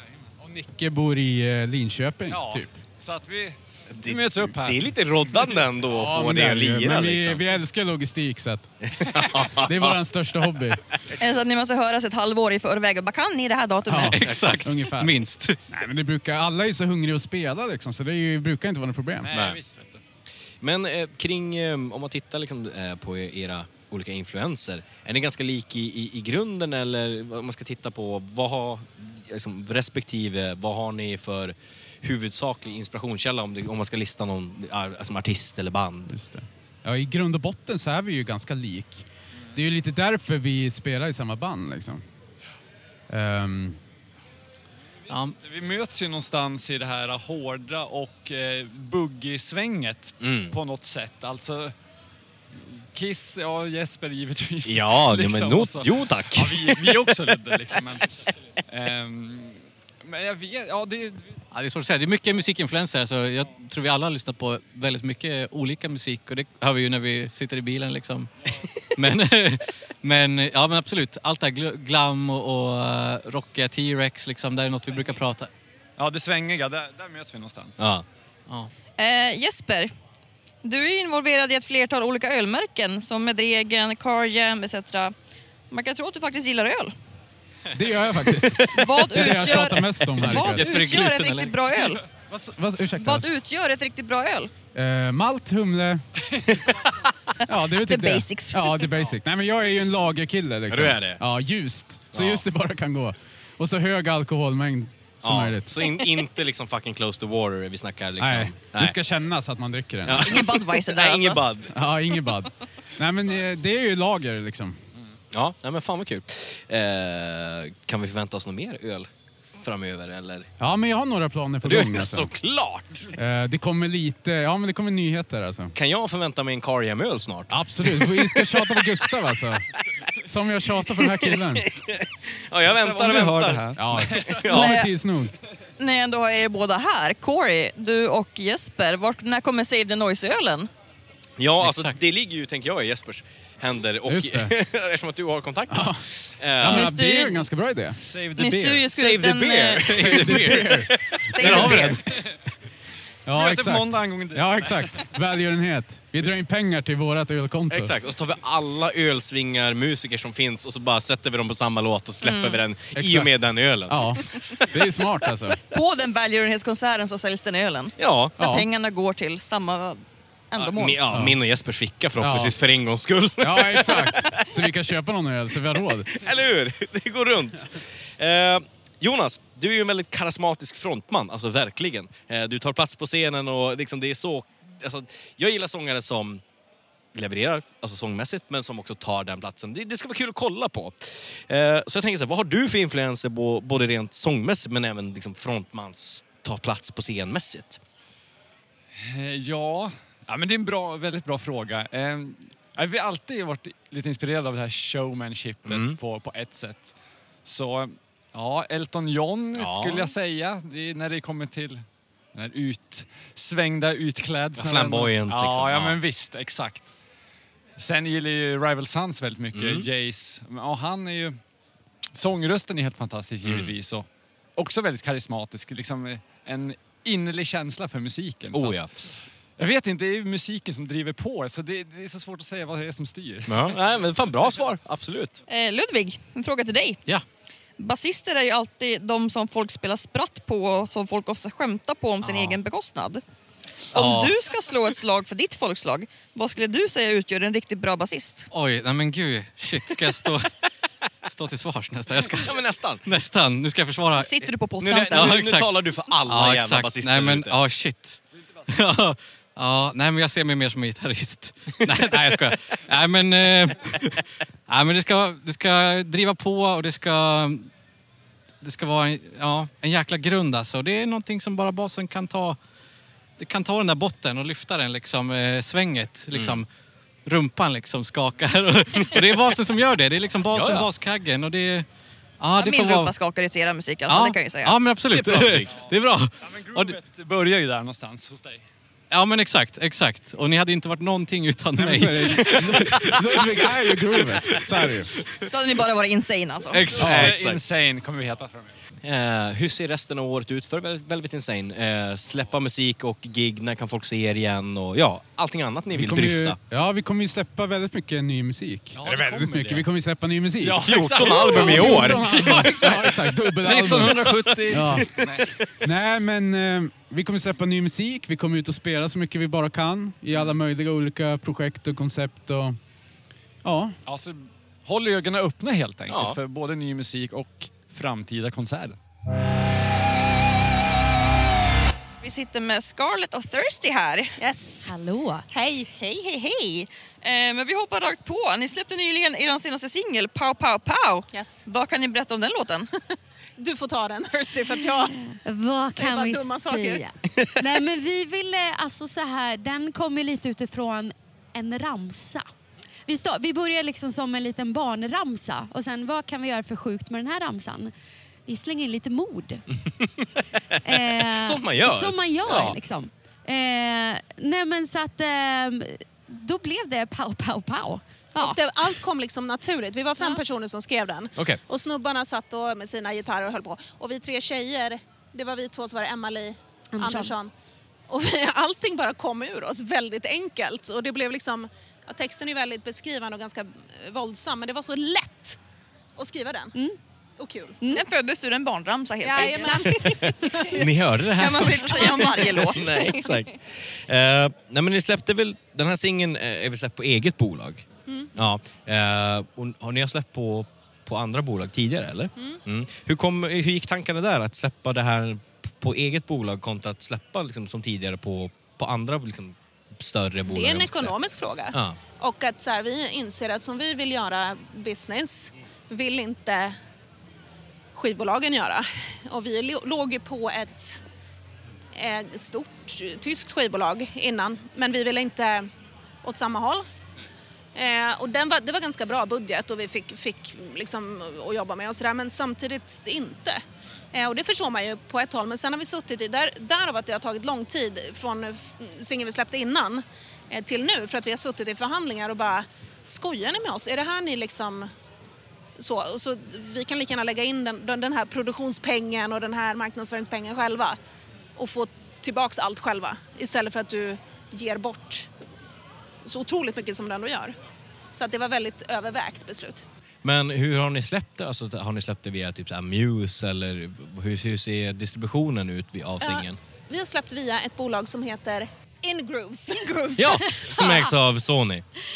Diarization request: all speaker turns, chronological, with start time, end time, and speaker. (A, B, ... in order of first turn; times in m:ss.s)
0:00.4-0:02.8 A
0:02.3-0:05.1 B
0:03.9-0:07.4 C
0:06.0-0:10.9 A
0:09.0-0:10.0 C
0:11.2-0:14.4 D
0:13.9-0:19.3 A
0:14.2-0:15.6 C
0:14.3-0:14.6 E
0:19.2-0:20.0 B
0:19.3-0:19.6 C
0:20.6-0:36.2 C
0:36.1-0:42.1 A
0:43.1-0:43.8 A
0:45.1-0:45.4 E
0:45.4-0:51.8 B
0:50.2-0:50.6 C
0:52.5-1:01.4 B
0:54.6-0:57.6 C
1:01.5-1:08.3 E
1:09.0-1:15.5 E
1:16.0-1:17.8 B
1:17.8-1:18.0 C
1:18.5-1:18.7 E
1:19.0-1:19.9 D
1:20.6-1:25.1 D
1:25.7-1:26.9 D
1:27.8-1:30.6 A
1:28.7-1:32.0 D
1:30.2-1:31.0 C
1:30.3-1:31.6 E
1:32.3-1:33.3 A
1:33.0-1:34.5 D
1:34.8-1:36.2 A
1:37.5-1:45.8 A
1:37.8-1:38.9 D
1:40.7-1:41.2 C
1:42.1-1:42.4 C
1:45.2-1:49.0 C
1:48.2-1:50.4 A
1:50.0-1:51.8 C
1:50.2-1:51.5 D
1:51.7-1:54.8 A
1:55.3-2:00.5 C
2:00.6-2:02.4 A
2:01.6-2:03.1 C
2:03.2-2:05.7 A
2:05.8-2:08.8 C
2:07.5-2:09.7 A
2:10.2-2:11.7 A
2:11.0-2:14.8 C
2:12.7-2:14.4 B
2:13.8-2:15.3 A
2:14.5-2:14.9 D
2:15.8-2:20.7 D
2:21.4-2:27.0 C
2:21.6-2:22.0 E
2:24.1-2:24.6 A
2:25.7-2:28.8 A
2:26.7-2:27.6 D
2:28.0-2:28.7 B
2:28.4-2:30.1 D
2:28.7-2:32.3 C
2:29.9-2:31.9 A
2:31.4-2:32.0 D
2:33.3-2:38.0 A
2:33.4-2:34.5 C
2:33.4-2:34.9 B
2:37.7-2:44.6 C
2:42.2-2:42.6 D
2:42.9-2:45.6 A
2:45.7-2:51.0 D
2:48.0-2:48.4 C
2:48.4-2:48.7 A
2:50.6-2:54.7 C
2:51.1-2:51.4 A
2:52.2-2:52.6 A
2:53.4-2:56.2 A
2:56.1-3:06.4 C
3:07.1-3:17.8 C
3:19.1-3:36.9 B
3:25.6-3:26.0 C
3:29.6-3:30.1 C
3:34.6-3:36.0 C
3:37.8-3:41.5 B
3:39.5-3:39.9 C
3:42.1-3:53.8 B
3:43.4-3:43.7 C
3:48.5-3:49.0 C
3:53.5-3:55.4 C
3:55.5-3:57.0 D
3:57.8-4:03.2 D
4:02.2-4:02.6 E
4:03.9-4:08.5 D
4:03.9-4:04.3 C
4:08.5-4:10.5 E
4:11.2-4:14.5 E
4:12.3-4:13.1 C
4:14.2-4:15.4 D
4:14.8-4:17.6 C
4:15.2-4:24.1 E
4:21.9-4:22.6 C
4:24.7-4:27.7 E
4:28.6-4:32.6 E
4:33.4-4:36.7 E
4:36.3-4:36.6 C
4:37.3-4:41.9 E
4:40.5-4:40.9 C
4:42.4-4:43.1 E
4:42.6-4:44.8 D
4:44.1-4:47.0 E
4:45.1-4:45.8 C
4:46.4-4:48.6 B
4:49.1-4:52.5 E
4:51.8-4:55.1 A
4:52.3-4:53.6 C
4:54.2-4:54.6 C
4:55.5-4:57.0 D
4:56.7-4:57.6 C
4:57.0-4:58.7 B
4:57.0-4:57.3 A
4:59.0-5:06.6 C
5:05.9-5:15.1 A
5:09.0-5:09.8 B
5:09.0-5:09.8 C
5:10.6-5:15.4 B
5:10.7-5:15.6 C
5:15.8-5:22.8 A
5:23.6-5:24.0 A
5:24.0-5:29.0 B
5:26.1-5:26.4 C
5:32.2-5:34.3 D
5:34.4-5:35.0 F
5:34.8-5:35.4 G
5:35.6-5:36.8 F
5:37.2-5:42.9 D
5:41.3-5:41.6 F
5:43.6-5:45.2 F
5:44.7-5:52.5 G
5:45.9-5:47.0 F
5:53.1-5:57.9 G
5:58.5-5:59.6 G
6:00.7-6:02.8 C
6:00.8-6:08.6 G
6:08.4-6:17.5 F
6:17.0-6:17.4 G
6:18.1-6:25.6 F
6:26.2-6:26.8 F
6:27.4-6:27.8 F
6:27.9-6:30.1 D
6:29.2-6:30.8 F
6:29.4-6:30.3 G
6:30.7-6:51.2 C
6:31.4-6:33.4 D
6:50.5-6:56.8 F
6:51.7-6:52.0 C
6:58.0-7:01.0 F
7:02.0-7:05.7 F
7:06.2-7:06.9 F
7:07.8-7:13.6 F
7:14.1-7:24.9 F
7:25.8-7:31.0 F
7:31.6-7:35.3 F
7:36.2-7:37.6 F
7:38.1-7:39.8 F
7:40.2-7:46.6 C
7:46.2-7:50.9 F
7:50.2-7:51.8 C